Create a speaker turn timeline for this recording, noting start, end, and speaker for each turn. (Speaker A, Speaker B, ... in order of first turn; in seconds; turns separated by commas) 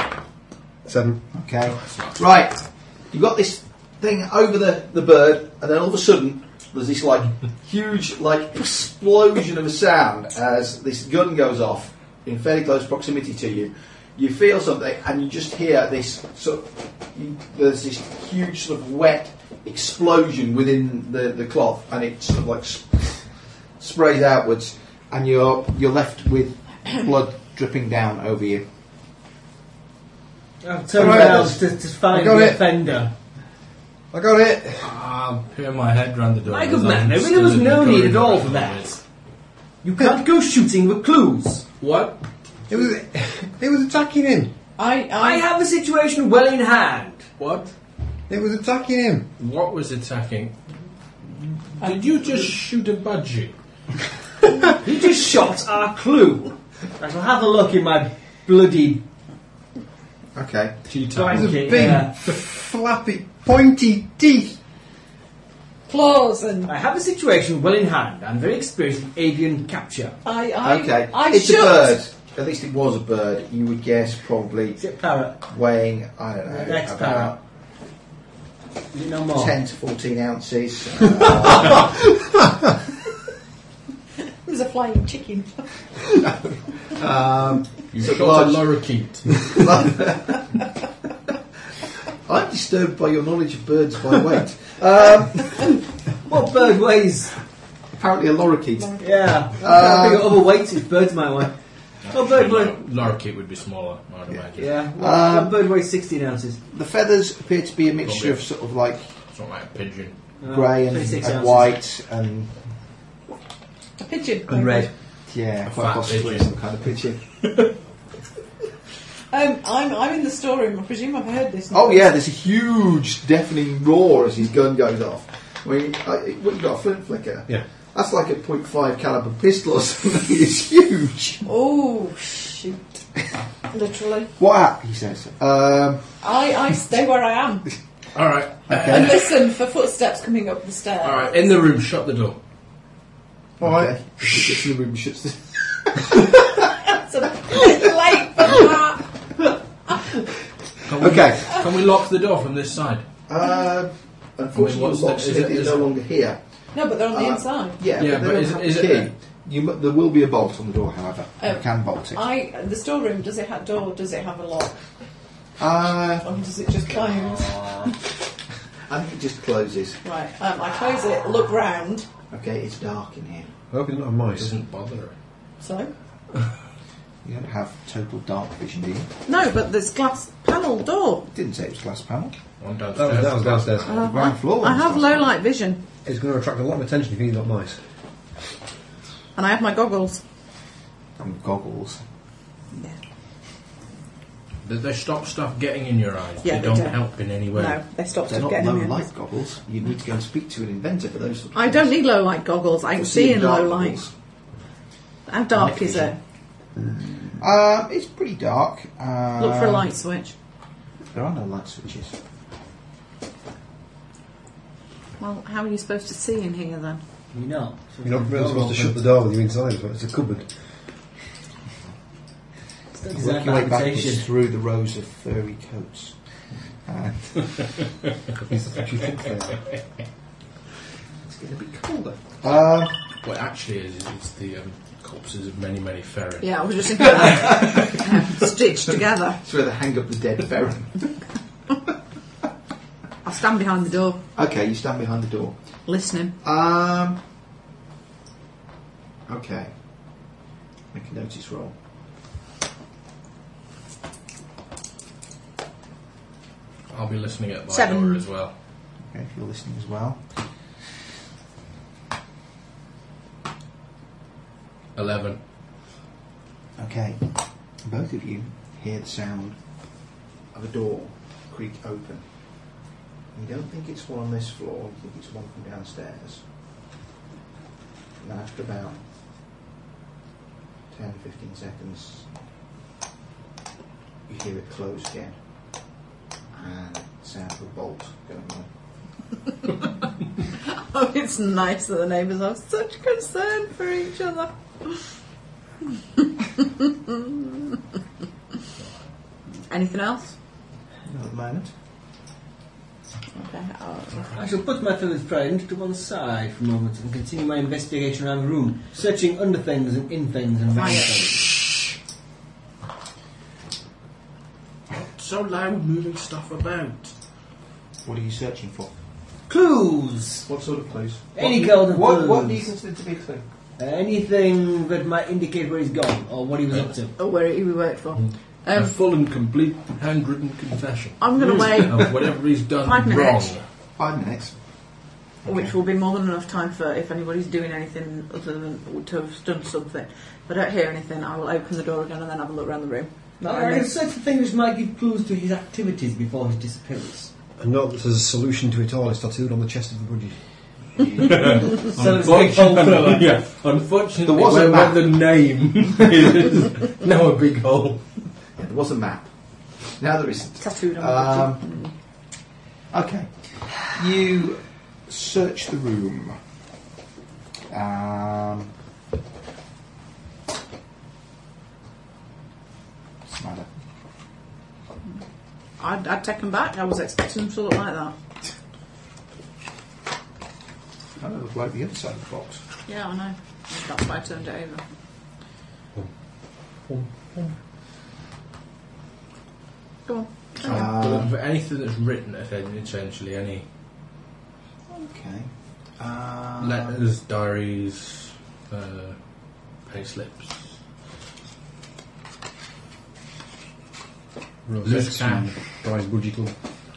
Speaker A: 0.8-1.3, Speaker B: 1.3-28.7, Speaker C: 1.7-2.2, Speaker D: 30.6-33.1, Speaker A: 30.9-32.7, Speaker B: 30.9-31.6, Speaker A: 34.1-34.9, Speaker C: 34.8-39.0, Speaker D: 36.5-39.0, Speaker D: 39.8-41.7, Speaker C: 41.8-42.2, Speaker A: 42.7-44.5, Speaker E: 44.8-45.5, Speaker D: 45.1-47.3, Speaker C: 47.4-47.7, Speaker A: 48.3-49.3, Speaker C: 49.4-50.5, Speaker C: 51.8-53.5, Speaker D: 54.8-59.0, Speaker B: 60.3-61.0, Speaker C: 60.9-62.4, Speaker D: 61.1-62.2, Speaker A: 61.3-64.6, Speaker E: 65.9-66.7, Speaker D: 66.7-70.2, Speaker E: 70.2-72.0, Speaker B: 70.6-77.4, Speaker D: 74.8-75.4, Speaker D: 76.5-77.4, Speaker D: 78.9-79.6, Speaker B: 79.3-82.4, Speaker E: 84.5-85.8, Speaker B: 86.9-90.6, Speaker C: 87.9-89.9, Speaker B: 92.2-95.8, Speaker D: 96.3-97.3, Speaker B: 97.9-100.5, Speaker D: 99.0-102.8, Speaker C: 102.0-104.8, Speaker D: 104.5-106.6, Speaker B: 104.8-105.6, Speaker B: 106.7-109.1, Speaker C: 108.0-108.5, Speaker C: 109.3-110.2, Speaker D: 110.4-111.8, Speaker B: 110.5-112.6, Speaker E: 114.0-114.9, Speaker B: 114.5-117.2, Speaker C: 115.6-116.5, Speaker E: 119.3-122.1, Speaker B: 121.7-131.4, Speaker E: 131.4-133.0, Speaker E: 133.7-134.3, Speaker B: 134.4-136.2, Speaker E: 136.2-137.7, Speaker C: 138.1-139.3, Speaker B: 138.7-139.1, Speaker E: 138.7-141.5, Speaker C: 141.0-142.4, Speaker B: 143.6-146.6, Speaker E: 146.9-149.1, Speaker C: 150.8-153.1, Speaker B: 151.0-151.7, Speaker B: 153.3-162.2, Speaker C: 154.5-155.9, Speaker E: 156.7-157.8, Speaker C: 158.0-159.1, Speaker E: 161.4-164.8, Speaker B: 165.6-166.3, Speaker E: 166.2-167.9, Speaker D: 167.4-167.8, Speaker B: 168.9-170.0, Speaker E: 170.0-172.1, Speaker B: 172.3-173.5, Speaker A: 173.7-174.6, Speaker C: 174.3-175.1, Speaker E: 175.6-175.9, Speaker B: 177.2-179.1, Speaker E: 179.3-181.3, Speaker B: 181.3-182.4, Speaker C: 182.6-184.1, Speaker A: 182.9-183.9, Speaker E: 183.9-185.8, Speaker B: 183.9-185.3, Speaker A: 186.1-187.8, Speaker E: 189.4-190.2, Speaker B: 191.2-192.0, Speaker E: 192.7-193.0, Speaker C: 194.6-197.8, Speaker E: 196.4-199.1, Speaker B: 198.3-201.9, Speaker E: 201.5-204.0, Speaker B: 202.9-204.1, Speaker E: 205.3-206.2, Speaker B: 205.5-206.1, Speaker B: 207.2-209.9, Speaker E: 209.4-210.3, Speaker B: 211.1-212.2, Speaker E: 215.2-217.0, Speaker D: 217.3-218.9, Speaker A: 218.0-220.6, Speaker D: 223.0-224.3, Speaker B: 223.1-227.8, Speaker A: 228.4-229.6, Speaker B: 231.2-232.9, Speaker C: 233.1-237.8, Speaker E: 236.4-239.4, Speaker B: 239.4-241.2, Speaker E: 243.2-244.2, Speaker B: 244.3-245.6, Speaker E: 245.9-246.4, Speaker B: 246.4-247.2, Speaker B: 249.3-250.4, Speaker B: 250.9-251.8, Speaker C: 256.9-258.5, Speaker E: 257.7-258.2, Speaker B: 259.0-260.8, Speaker C: 264.9-265.4, Speaker B: 266.8-269.9, Speaker B: 270.5-272.8, Speaker B: 273.3-276.4, Speaker B: 278.2-279.0, Speaker B: 280.9-282.3, Speaker B: 284.3-285.9, Speaker B: 286.5-288.7, Speaker E: 290.6-295.1, Speaker E: 296.6-297.4, Speaker E: 299.7-300.4, Speaker B: 301.1-301.7, Speaker E: 303.3-304.4, Speaker D: 304.3-311.6, Speaker E: 310.7-311.2, Speaker C: 314.9-317.2, Speaker B: 318.0-318.9, Speaker D: 319.5-320.5, Speaker B: 320.4-323.4, Speaker D: 321.3-322.7, Speaker D: 323.8-327.1, Speaker E: 327.2-328.9, Speaker C: 328.2-333.7, Speaker E: 331.2-332.3, Speaker E: 332.8-333.6, Speaker B: 333.9-335.7, Speaker E: 335.4-343.9, Speaker D: 343.4-347.3, Speaker A: 347.6-350.4, Speaker C: 351.2-358.1, Speaker D: 351.4-353.3, Speaker B: 354.2-355.1, Speaker B: 358.6-361.7, Speaker E: 360.6-361.9, Speaker B: 362.9-366.4, Speaker B: 367.7-368.7, Speaker B: 373.3-373.7, Speaker E: 375.8-378.1, Speaker B: 381.2-382.6, Speaker E: 382.9-384.8, Speaker A: 385.9-387.5, Speaker E: 390.1-390.9, Speaker C: 390.6-393.7, Speaker B: 390.6-391.3, Speaker B: 394.9-397.0, Speaker C: 396.6-399.2, Speaker C: 399.8-400.8, Speaker A: 404.6-406.6, Speaker C: 404.8-405.6